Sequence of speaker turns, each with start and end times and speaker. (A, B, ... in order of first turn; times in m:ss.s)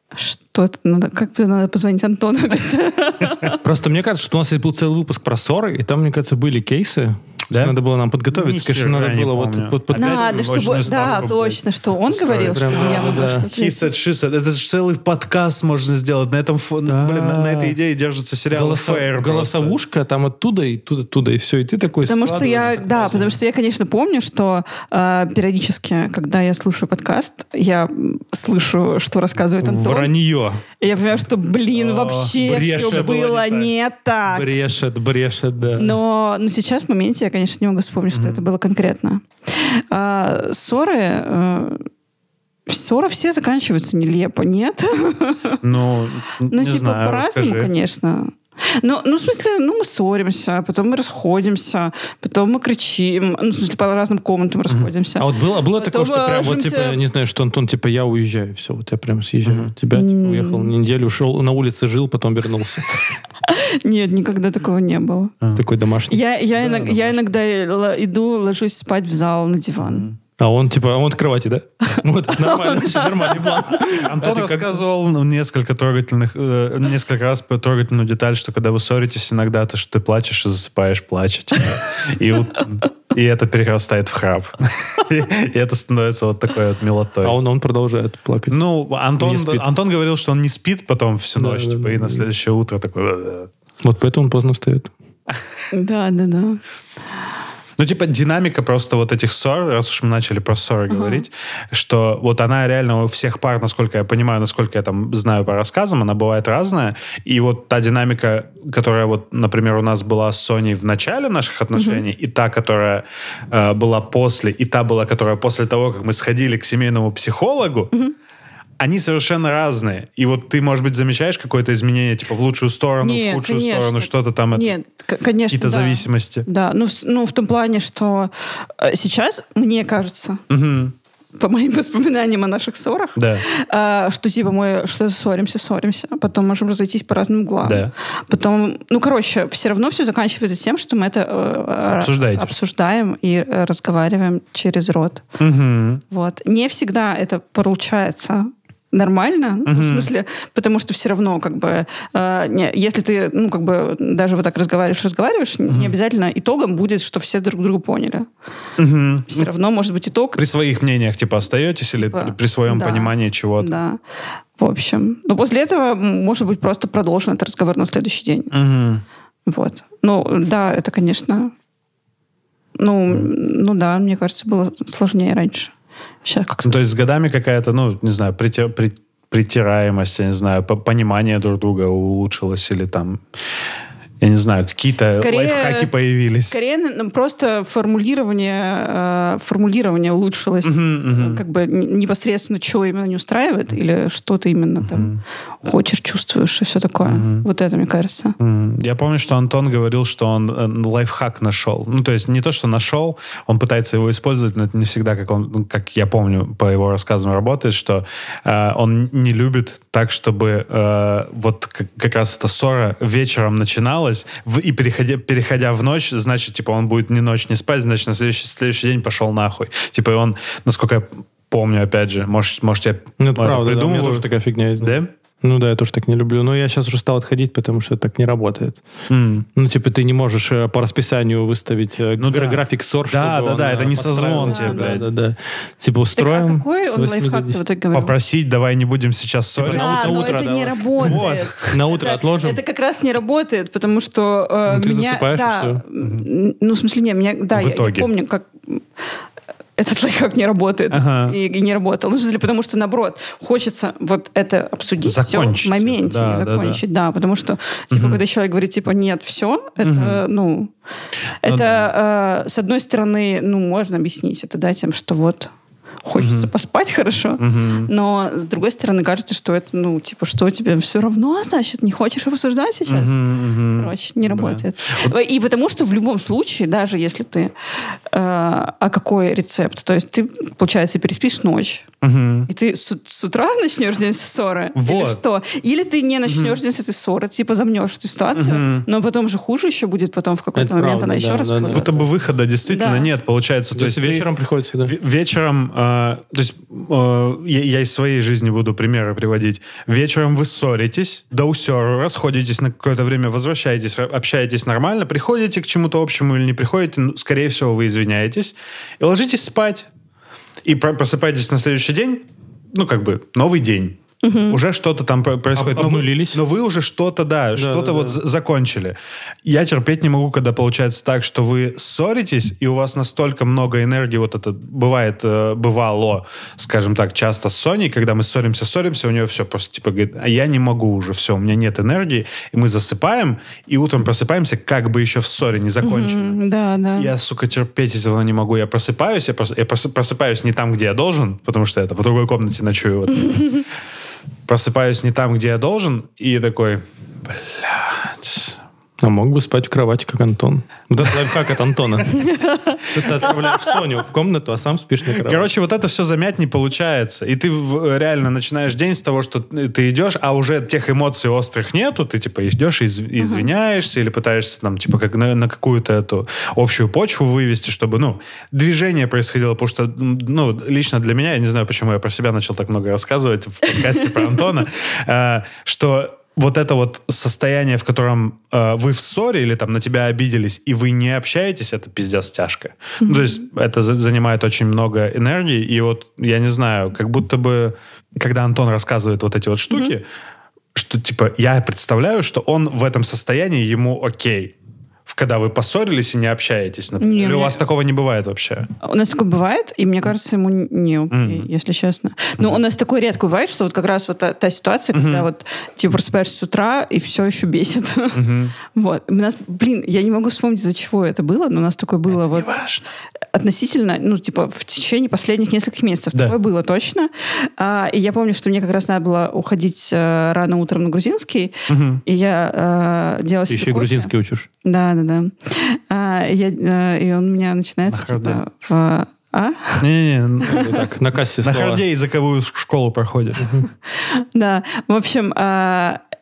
0:00.1-0:03.6 A
0:03.6-0:11.5 B
0:08.3-0:11.5 C
0:09.9-0:13.9 A
0:12.1-0:19.8 C
0:12.1-0:13.4 B
0:16.8-0:17.8 B
0:18.5-0:23.4 B
0:22.0-0:30.1 A
0:29.6-0:30.6 B
0:30.8-0:34.5 A
0:31.7-0:33.7 C
0:32.4-0:33.4 B
0:34.3-0:36.0 B
0:35.8-0:41.8 A
0:38.1-0:38.4 C
0:42.7-0:45.6 A
0:45.6-0:47.7 C
0:46.5-0:57.0 A
0:55.2-1:03.0 B
0:59.4-0:59.7 C
0:59.9-1:00.7 A
1:03.4-1:05.4 A
1:05.6-1:07.2 B
1:06.1-1:10.1 A
1:09.8-1:10.1 C
1:10.4-1:14.8 B
1:12.3-1:14.0 A
1:13.9-1:27.4 C
1:27.2-1:28.6 B
1:28.5-1:33.5 C
1:29.2-1:29.7 B
1:31.4-1:32.3 B
1:33.8-1:34.9 B
1:35.7-1:36.6 A
1:37.8-1:57.9 C
1:40.9-1:41.2 A
1:51.7-1:52.0 A
1:58.8-2:04.7 C
2:03.0-2:10.4 A
2:05.5-2:06.5 C
2:10.5-2:10.9 C
2:11.4-2:25.2 A
2:13.2-2:13.4 C
2:17.6-2:17.9 C
2:22.0-2:22.5 C
2:25.4-2:26.0 C
2:26.1-2:38.3 A
2:29.6-2:30.1 C
2:35.7-2:35.9 C
2:38.8-2:39.5 C
2:39.3-2:40.4 A
2:40.4-2:43.7 C
2:41.9-2:44.0 A
2:44.6-2:48.5 A
2:48.5-2:49.0 C
2:49.5-2:51.5 A
2:52.8-2:55.7 A
2:56.2-2:56.8 A
2:56.6-3:03.2 C
3:04.2-3:06.6 C
3:05.1-3:05.9 A
3:06.5-3:15.1 A
3:10.6-3:11.4 C
3:14.8-3:15.2 C
3:15.6-3:18.4 A
3:17.0-3:17.4 C
3:18.4-3:44.2 C
3:43.2-3:48.8 B
3:44.8-3:45.1 C
3:49.1-3:49.4 C
3:49.6-3:57.6 B
3:52.2-3:55.0 C
3:54.2-3:55.0 A
3:56.2-3:58.2 A
3:57.9-4:00.3 C
3:59.6-4:02.6 B
3:59.7-4:08.8 A
4:01.0-4:01.8 C
4:04.6-4:05.8 B
4:06.0-4:06.3 C
4:07.5-4:08.1 C
4:09.8-4:20.7 A
4:10.9-4:11.4 C
4:15.0-4:16.8 C
4:17.9-4:18.2 C
4:19.8-4:20.2 C
4:21.4-4:25.5 A
4:21.4-4:21.9 C
4:26.0-4:41.8 A
4:26.2-4:26.5 C
4:27.4-4:27.9 C
4:32.8-4:35.1 C
4:42.0-4:42.5 C
4:42.5-4:52.1 A
4:44.8-4:45.2 C
4:46.2-4:46.6 C
4:48.3-4:48.8 C
4:50.5-4:52.0 B
4:51.7-4:54.3 C
4:52.6-4:53.1 A
4:53.7-4:54.9 B
4:54.8-5:09.9 C
5:10.6-5:36.4 C
5:14.2-5:14.6 A
5:15.5-5:16.4 B
5:17.5-5:18.2 B
5:35.8-5:37.1 A
5:37.0-5:43.5 C
5:44.5-5:48.6 C
5:49.0-5:52.2 B
5:52.3-5:52.8 A
5:52.9-5:55.5 B
5:55.1-6:30.0 C
6:03.2-6:03.5 A
6:23.0-6:23.3 A
6:29.7-6:29.9 A
6:30.7-6:34.5 C
6:35.0-6:38.7 C
6:37.0-6:37.6 A
6:38.8-6:52.5 A
6:41.1-6:41.5 C
6:44.9-6:45.2 C
6:48.1-6:48.5 C
6:52.1-6:52.8 C
6:53.3-7:04.1 A
7:01.7-7:02.0 C
7:03.5-7:04.5 B
7:04.6-7:09.8 A
7:07.9-7:08.4 C
7:09.8-7:10.6 C
7:10.5-7:11.8 B
7:11.1-7:13.5 C
7:13.4-7:13.6 B
7:14.0-7:16.0 A